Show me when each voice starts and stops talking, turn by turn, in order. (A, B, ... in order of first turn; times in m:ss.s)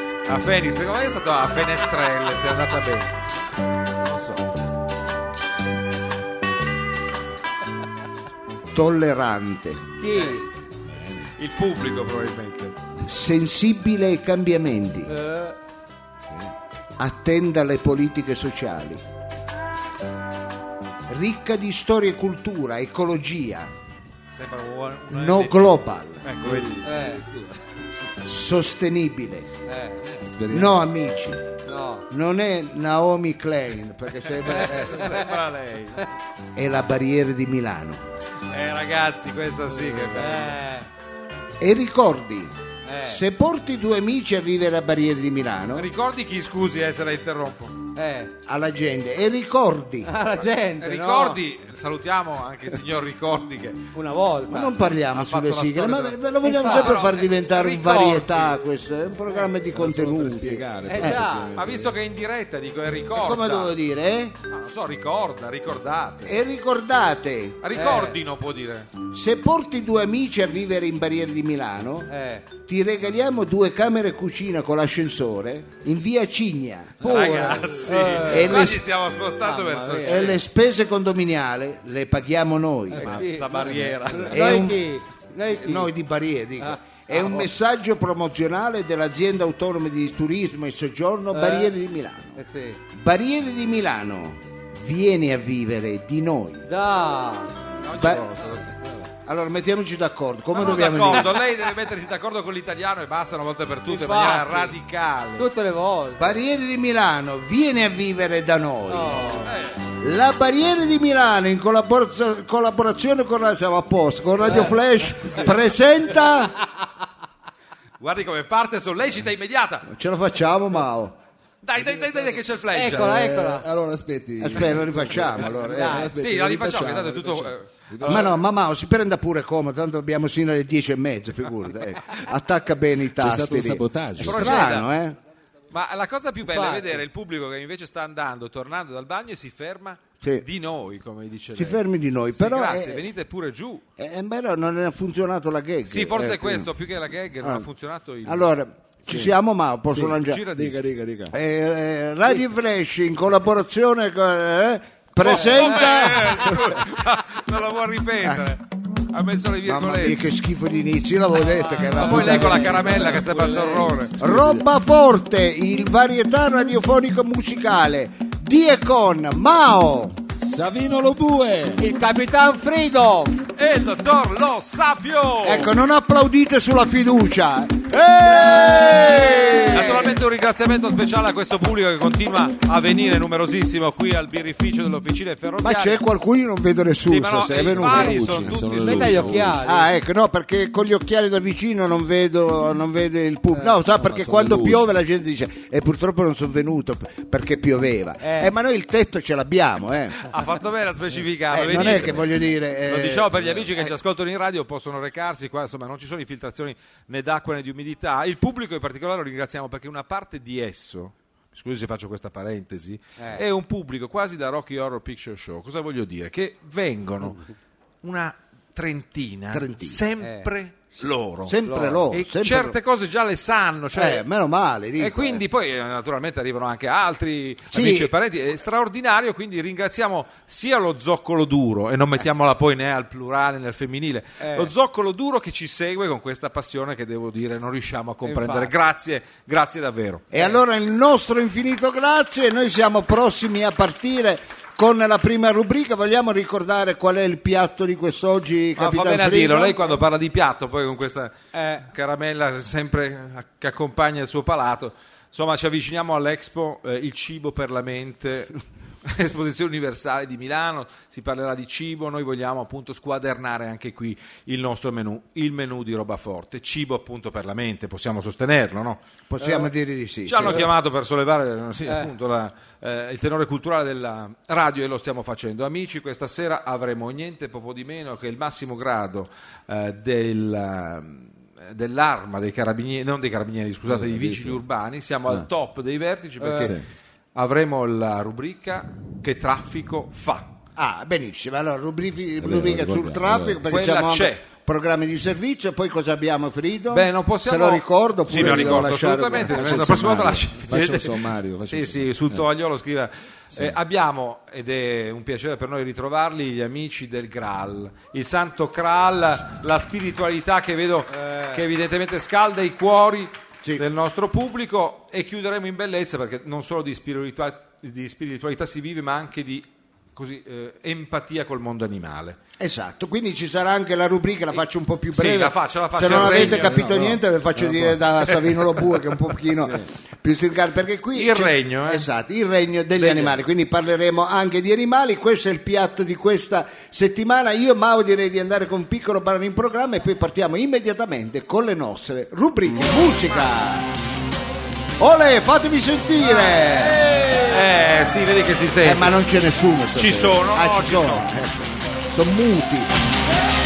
0:00.2-0:03.1 A
0:04.0-0:04.5 A
0:08.7-0:09.9 B
0:10.0-0:10.5 C
0:10.1-0:10.4 A
0:10.8-0:11.3 D
0:11.4-0:12.8 A
0:13.0-0:15.1 B
0:15.1-0:15.6 C
0:16.2-0:16.5 D
0:17.0-0:19.0 B
0:21.1-0:23.7 B
0:24.3-0:26.8 A
0:25.1-0:26.2 B
0:26.4-0:27.6 D
0:26.8-0:27.2 C
0:28.2-0:29.5 B
0:29.6-0:30.0 C
0:30.0-0:30.8 D
0:30.5-0:31.6 B
0:31.6-0:32.0 C
0:32.1-0:35.1 B
0:34.4-0:36.0 A
0:34.5-0:35.4 C
0:36.5-0:38.0 B
0:38.5-0:40.6 A
0:40.1-0:40.9 C
0:41.6-0:42.5 B
0:42.8-0:43.2 C
0:43.0-0:45.9 B
0:45.8-0:47.8 A
0:47.9-0:48.3 C
0:48.4-0:50.1 B
0:50.0-0:51.4 C
0:50.8-0:53.9 A
0:53.9-0:54.8 C
0:54.5-1:01.2 B
0:55.0-0:58.5 A
0:56.4-0:57.0 C
0:59.7-1:02.0 D
1:00.8-1:01.5 C
1:01.5-1:03.7 A
1:03.2-1:04.3 B
1:04.5-1:06.4 A
1:06.2-1:07.6 B
1:07.6-1:08.9 A
1:07.7-1:08.2 C
1:09.1-1:17.0 B
1:12.1-1:12.4 C
1:17.0-1:18.0 D
1:17.0-1:18.8 C
1:17.0-1:20.4 A
1:18.3-1:18.8 B
1:19.4-1:20.4 C
1:20.0-1:23.2 B
1:22.9-1:24.5 D
1:23.0-1:25.9 C
1:23.1-1:24.4 A
1:24.3-1:24.8 B
1:25.6-1:36.7 B
1:26.6-1:27.5 C
1:31.3-1:31.7 C
1:32.4-1:32.8 C
1:36.7-1:37.5 C
1:37.8-1:38.7 A
1:37.9-1:38.3 B
1:38.3-1:39.1 D
1:39.2-1:41.3 B
1:40.5-1:45.5 A
1:43.9-1:44.7 C
1:45.4-1:46.4 C
1:46.2-1:49.3 B
1:48.9-1:49.5 C
1:49.5-1:49.8 A
1:50.0-1:56.6 B
1:54.4-1:54.7 C
1:55.2-1:55.5 D
1:58.0-1:59.9 A
1:59.9-2:01.1 B
2:01.6-2:03.4 A
2:02.7-2:03.7 C
2:03.0-2:08.3 D
2:04.4-2:06.1 B
2:05.6-2:06.1 C
2:06.2-2:08.4 A
2:08.0-2:15.2 B
2:13.2-2:14.6 D
2:14.2-2:14.8 A
2:15.7-2:21.8 A
2:16.4-2:17.0 C
2:21.6-2:23.1 B
2:22.3-2:23.8 A
2:24.0-2:26.7 B
2:25.9-2:28.4 A
2:28.2-2:30.4 B
2:29.9-2:31.3 D
2:30.2-2:30.8 A
2:31.3-2:36.6 B
2:35.2-2:40.2 A
2:38.2-2:38.5 B
2:39.6-2:43.2 B
2:41.5-2:43.0 C
2:41.8-2:44.1 A
2:42.7-2:44.6 D
2:44.2-2:50.2 B
2:50.3-2:51.8 D
2:51.8-2:53.4 C
2:53.6-2:55.7 A
2:55.4-3:00.1 B
2:58.4-3:00.2 C
2:59.7-3:06.0 A
3:05.6-3:08.6 B
3:07.0-3:09.5 A
3:07.7-3:09.6 D
3:08.8-3:10.0 C
3:09.6-3:20.2 B
3:13.5-3:13.8 C
3:13.9-3:14.9 D
3:18.2-3:18.5 C
3:20.2-3:22.3 A
3:21.5-3:23.8 B
3:22.9-3:37.4 A
3:23.3-3:23.7 D
3:33.2-3:33.4 C
3:38.0-3:41.6 A
3:39.5-3:40.0 B
3:40.2-3:40.5 C
3:41.4-3:42.8 B
3:41.6-3:42.0 C
3:42.1-3:44.2 A
3:43.9-3:45.4 B
3:45.0-4:00.3 A
3:47.7-3:48.1 B
3:54.4-3:54.7 C
3:58.2-3:58.7 C
4:00.3-4:09.9 B
4:08.8-4:29.0 A
4:11.5-4:11.9 C
4:29.3-4:30.7 B
4:30.2-4:46.8 A
4:31.8-4:32.1 C
4:43.8-4:44.6 D
4:46.4-4:46.7 C
4:46.6-4:46.9 D
4:47.3-4:50.5 A
4:50.8-5:00.0 B
4:52.4-4:53.7 D
4:53.6-4:54.4 A
4:56.9-5:22.4 A
4:58.3-4:59.0 D
4:59.5-5:02.4 D
5:03.5-5:03.8 D
5:11.1-5:11.6 C
5:22.6-5:43.9 B
5:25.1-5:26.9 A
5:26.0-5:28.0 D
5:29.5-5:29.9 D
5:31.1-5:32.0 A
5:33.0-5:33.4 A
5:45.0-5:47.0 B
5:46.4-5:49.2 A
5:48.8-5:52.9 B
5:49.9-5:51.3 A